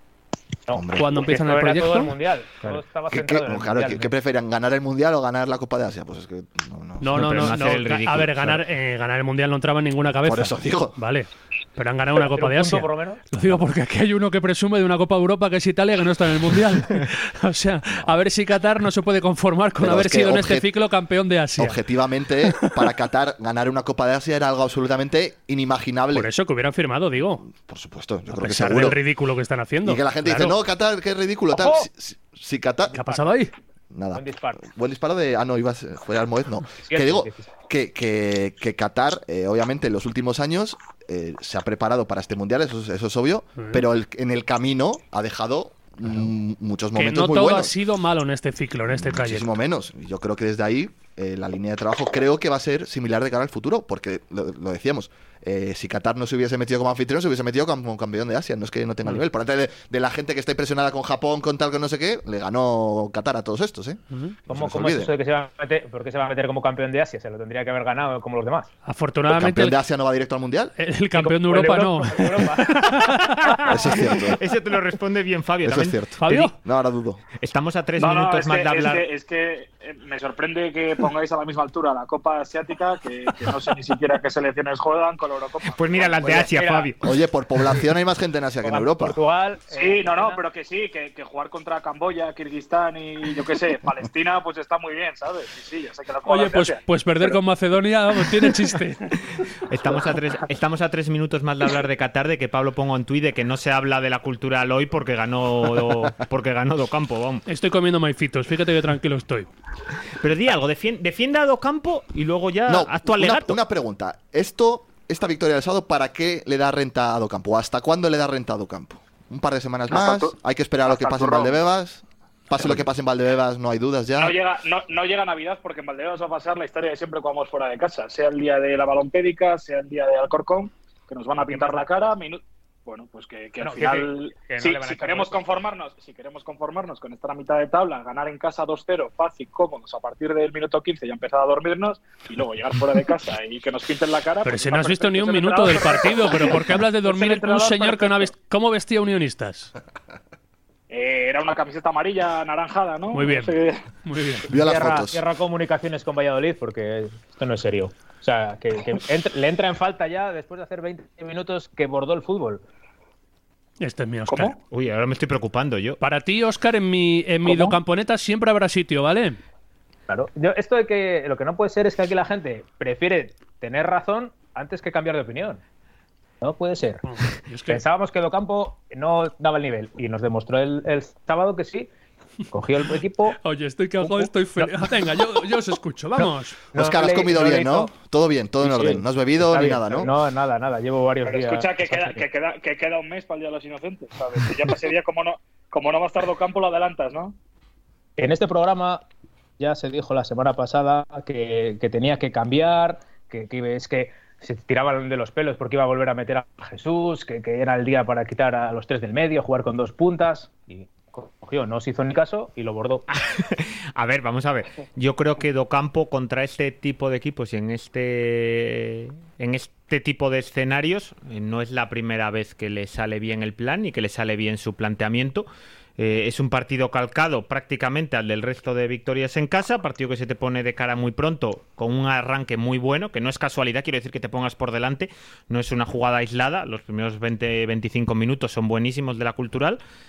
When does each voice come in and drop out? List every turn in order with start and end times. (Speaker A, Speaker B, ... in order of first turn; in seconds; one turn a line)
Speaker A: 0.7-4.1
Speaker B: 0.7-1.2
Speaker C: 1.0-2.2
Speaker B: 3.1-7.6
Speaker C: 7.0-21.8
Speaker D: 7.1-8.6
Speaker B: 10.2-11.0
Speaker A: 12.2-13.2
Speaker B: 19.8-20.7
Speaker B: 21.6-26.3
Speaker C: 26.1-27.5
Speaker B: 27.5-29.0
Speaker C: 28.3-30.6
Speaker B: 29.8-33.0
Speaker A: 31.5-31.9
Speaker C: 33.0-33.5
Speaker B: 33.9-47.8
Speaker A: 34.1-34.6
Speaker A: 36.8-37.5
Speaker C: 43.6-43.8
Speaker C: 47.0-49.5
Speaker B: 48.9-65.1
Speaker C: 64.1-64.4
Speaker A: 64.5-68.7
Speaker C: 68.9-69.8
Speaker B: 69.3-70.7
Speaker C: 70.8-73.7
Speaker A: 71.2-72.9
Speaker D: 73.5-76.5
Speaker B: 73.7-74.4
Speaker B: 75.6-77.2
Speaker C: 76.2-76.5
Speaker D: 77.4-79.0
Speaker E: 78.0-86.5
Speaker D: 85.7-87.0
Speaker A: 86.3-86.9
Speaker B: 87.0-89.2
Speaker A: 88.6-90.4
Speaker E: 89.7-97.4
Speaker C: 96.3-99.2
Speaker D: 99.7-107.5
Speaker C: 107.5-109.5
Speaker D: 110.2-113.6
Speaker B: 112.7-124.4
Speaker E: 119.9-121.6
Speaker E: 124.2-148.3
Speaker A: 131.5-131.8
Speaker A: 133.6-135.4
Speaker C: 144.4-149.7
Speaker E: 150.9-153.8
Speaker C: 153.1-154.5
Speaker B: 154.5-155.2
Speaker A: 154.5-162.6
Speaker C: 163.8-164.5
Speaker E: 164.3-164.6
Speaker D: 164.7-166.0
Speaker C: 166.0-169.4
Speaker A: 167.4-167.8
Speaker A: 170.1-175.6
Speaker A: 176.4-177.0
Speaker C: 177.0-177.8
Speaker A: 177.7-181.9
Speaker A: 182.5-183.4
Speaker C: 183.3-186.6
Speaker A: 184.0-184.9
Speaker A: 186.2-187.9
Speaker B: 186.8-190.1
Speaker A: 188.6-192.2
Speaker E: 191.2-197.3
Speaker A: 198.2-199.0
Speaker A: 199.6-213.1
Speaker D: 213.1-225.5
Speaker D: 226.0-239.8